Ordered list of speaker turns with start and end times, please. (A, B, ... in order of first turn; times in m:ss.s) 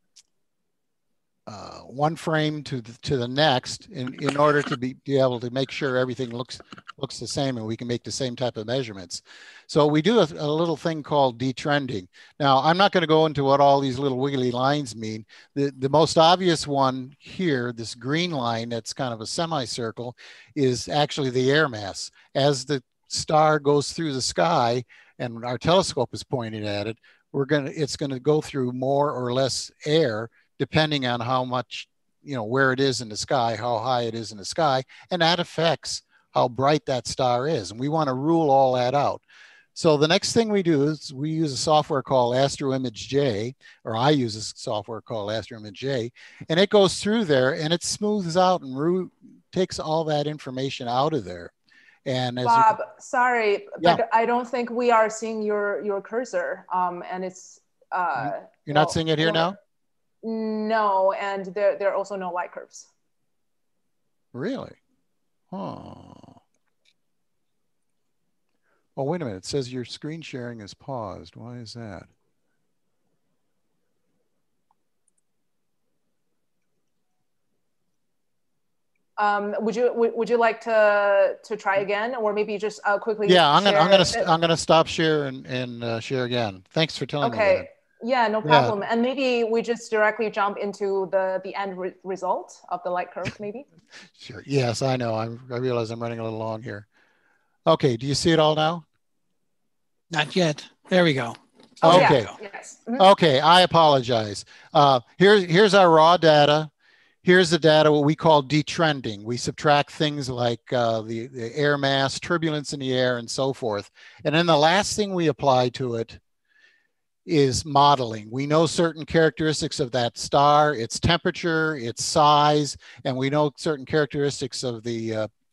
0:01.5-0:39.2 A
0:39.7-0:51.5 A
0:52.0-0:52.8 A
0:52.4-0:59.5 B
0:58.2-0:59.6 A
1:00.2-1:02.9 B
1:04.3-1:04.8 A
1:05.5-1:06.4 A
1:09.0-1:12.1 A
1:19.2-1:24.3 B
1:23.2-1:27.7 A
1:27.2-1:33.6 B
1:28.4-1:28.8 A
1:34.2-1:36.9 A
1:37.7-1:38.8 A
1:40.1-1:42.3 C
1:41.8-1:43.0 B
1:41.8-1:42.3 A
1:43.0-1:46.7 A
1:47.2-1:56.2 A
1:57.2-2:05.3 A